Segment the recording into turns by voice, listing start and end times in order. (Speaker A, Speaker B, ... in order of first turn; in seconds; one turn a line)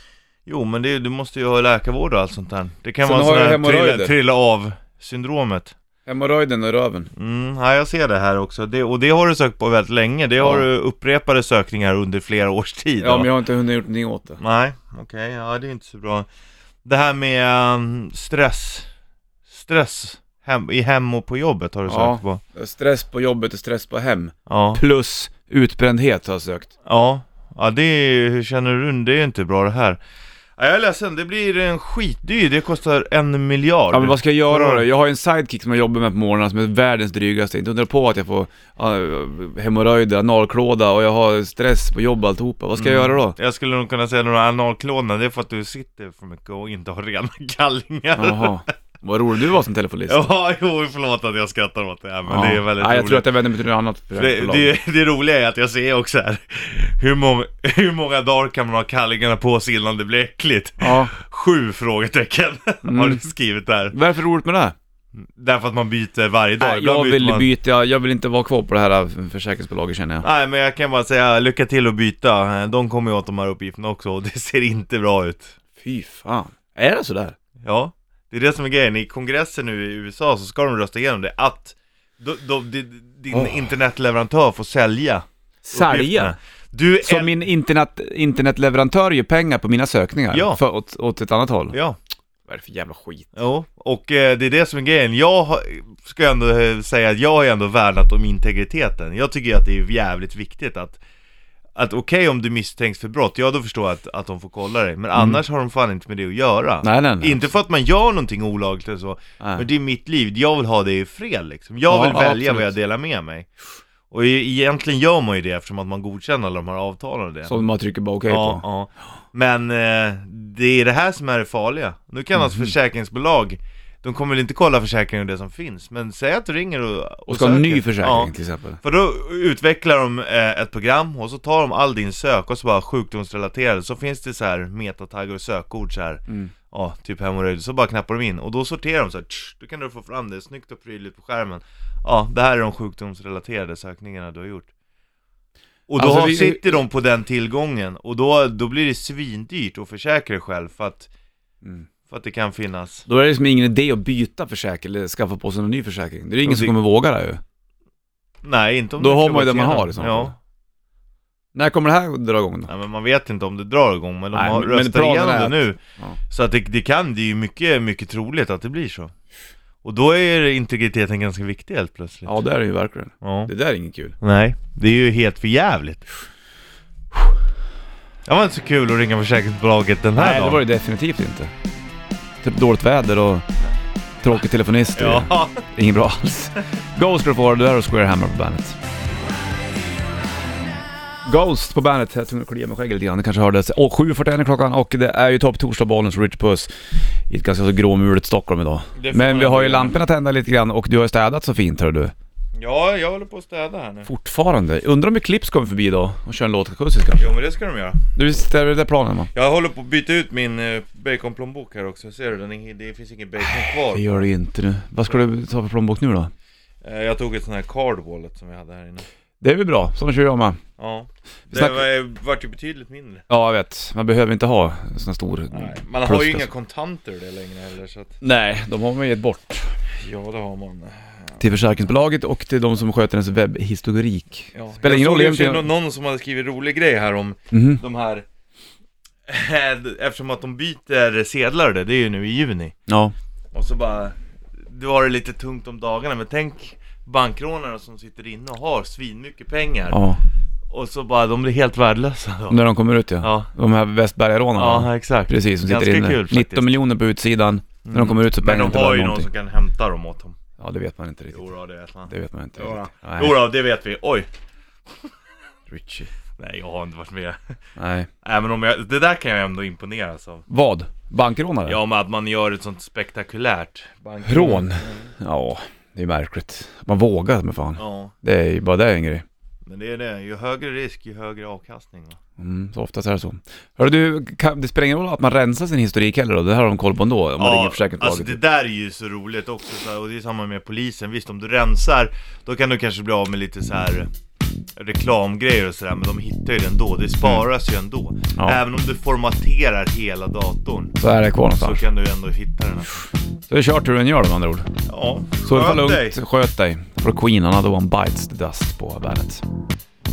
Speaker A: 0.5-5.7
Speaker B: 3.0-4.1
Speaker B: 6.0-7.1
Speaker A: 7.1-13.3
Speaker B: 10.4-10.7
Speaker B: 13.0-14.4
Speaker A: 14.4-16.3
Speaker A: 16.8-18.9
Speaker A: 19.5-22.4
Speaker B: 21.9-26.7
Speaker A: 24.5-24.8
Speaker A: 26.8-30.0
Speaker A: 30.6-34.8
Speaker B: 33.9-43.4
Speaker A: 42.8-48.6
Speaker B: 48.1-50.3
Speaker A: 50.1-53.3
Speaker B: 52.3-54.7
Speaker A: 54.1-64.0
Speaker B: 60.8-61.1
Speaker B: 62.8-63.3
Speaker B: 63.9-64.7
Speaker A: 65.2-67.5
Speaker B: 66.6-70.2
Speaker A: 70.2-75.5
Speaker B: 75.8-77.3
Speaker A: 77.6-87.4
Speaker B: 85.6-86.3
Speaker B: 87.0-91.8
Speaker A: 90.3-90.6
Speaker A: 91.7-92.0
Speaker B: 92.5-93.3
Speaker A: 93.3-101.0
Speaker A: 101.8-113.5
Speaker B: 106.8-107.5
Speaker B: 111.9-112.7
Speaker A: 114.1-117.6
Speaker B: 117.5-118.6
Speaker A: 118.3-144.7
Speaker B: 122.4-122.7
Speaker B: 127.3-128.8
Speaker A: 145.9-151.1
Speaker B: 146.0-146.8
Speaker A: 152.1-153.1
Speaker B: 153.1-157.4
Speaker A: 156.4-156.7
Speaker A: 158.4-160.3
Speaker B: 159.0-160.3
Speaker B: 161.5-162.7
Speaker A: 162.7-169.1
Speaker B: 164.3-166.2
Speaker A: 169.8-172.3
Speaker B: 172.2-174.2
Speaker A: 173.2-173.5
Speaker A: 174.2-176.0
Speaker A: 178.2-180.6
Speaker B: 180.2-181.5
Speaker B: 182.4-183.4
Speaker B: 184.2-188.8
Speaker A: 184.9-185.6
Speaker B: 191.2-196.7
Speaker B: 197.3-202.1
Speaker A: 198.9-200.0
Speaker A: 202.6-204.1
Speaker B: 204.1-207.3
Speaker A: 207.2-208.0
Speaker B: 208.1-209.3
Speaker A: 209.3-214.3
Speaker B: 213.4-216.3
Speaker A: 216.8-219.1
Speaker B: 219.4-220.6
Speaker A: 220.8-223.2
Speaker B: 221.5-221.8
Speaker B: 223.3-226.5
Speaker A: 225.5-228.2
Speaker B: 228.2-229.7
Speaker A: 230.0-231.1
Speaker B: 231.4-235.7
Speaker A: 234.5-238.2
Speaker B: 237.5-237.8
Speaker A: 239.3-242.7
Speaker B: 242.9-243.1
Speaker A: 243.5-250.0
Speaker B: 249.9-250.2
Speaker A: 250.7-252.6
Speaker B: 252.5-259.3
Speaker A: 253.2-253.5
Speaker A: 254.5-256.7
Speaker A: 257.8-260.4
Speaker B: 260.6-261.5
Speaker A: 261.3-264.3
Speaker B: 262.1-263.4
Speaker B: 265.7-266.1
Speaker A: 266.4-267.4
Speaker B: 267.8-268.1
Speaker A: 268.2-270.4
Speaker B: 270.5-271.8
Speaker A: 271.6-275.1
Speaker B: 274.2-279.2
Speaker A: 277.8-278.1
Speaker A: 279.6-282.2
Speaker B: 282.4-288.4
Speaker A: 287.4-294.1
Speaker A: 294.8-301.0
Speaker B: 301.0-301.8
Speaker A: 301.6-303.0
Speaker B: 303.5-304.7
Speaker A: 304.9-306.2
Speaker B: 305.4-309.4